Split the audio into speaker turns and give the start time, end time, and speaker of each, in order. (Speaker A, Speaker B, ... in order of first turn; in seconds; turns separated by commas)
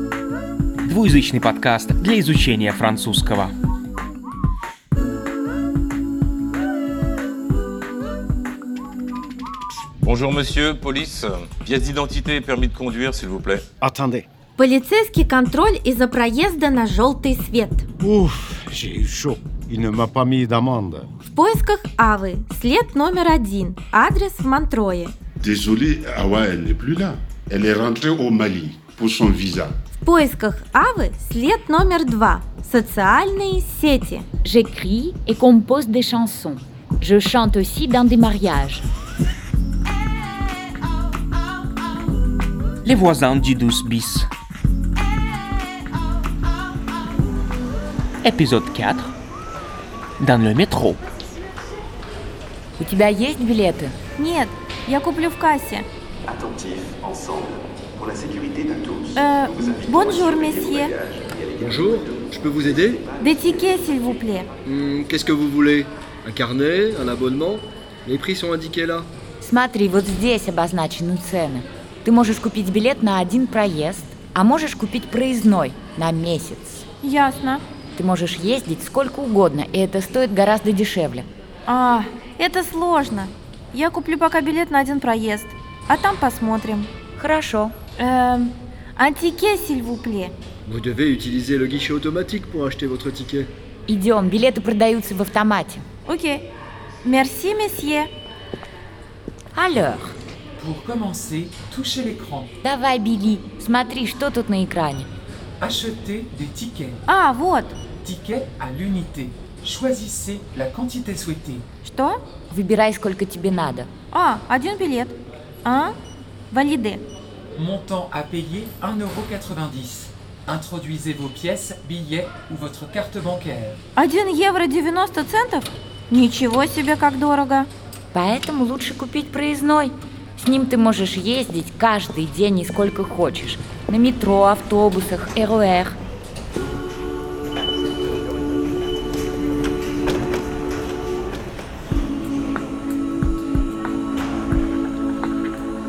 Speaker A: 0.9-3.5, Speaker B: 10.0-13.7, Speaker C: 13.8-14.3, Speaker D: 14.6-17.9, Speaker C: 18.0-21.1, Speaker D: 21.3-25.1, Speaker E: 25.4-29.8, Speaker D: 30.0-34.3, Speaker F: 34.4-38.9, Speaker A: 42.9-44.2, Speaker A: 48.3-49.0, Speaker A: 50.2-51.0, Speaker F: 52.8-54.0, Speaker D: 54.2-55.9, Speaker G: 56.3-59.1, Speaker D: 59.1-61.0, Speaker G: 61.0-61.6, Speaker H: 61.6-63.0, Speaker D: 63.2-64.5, Speaker H: 64.6-69.1, Speaker F: 69.4-76.8, Speaker D: 77.0-77.6, Speaker F: 78.0-81.3, Speaker D: 81.7-86.9, Speaker F: 87.2-87.8, Speaker D: 88.0-90.3, Speaker H: 90.7-93.5, Speaker F: 93.9-95.8, Speaker D: 96.1-96.5, Speaker D: 97.0-98.1, Speaker F: 99.5-100.2, Speaker I: 100.6-102.5, Speaker F: 102.6-105.1, Speaker I: 105.6-107.0, Speaker D: 107.1-107.8, Speaker I: 108.0-111.7, Speaker D: 111.8-112.2, Speaker F: 112.5-113.9, Speaker D: 114.1-116.0, Speaker D: 116.5-117.0, Speaker I: 117.6-123.8, Speaker D: 124.0-127.7, Speaker F: 128.1-136.0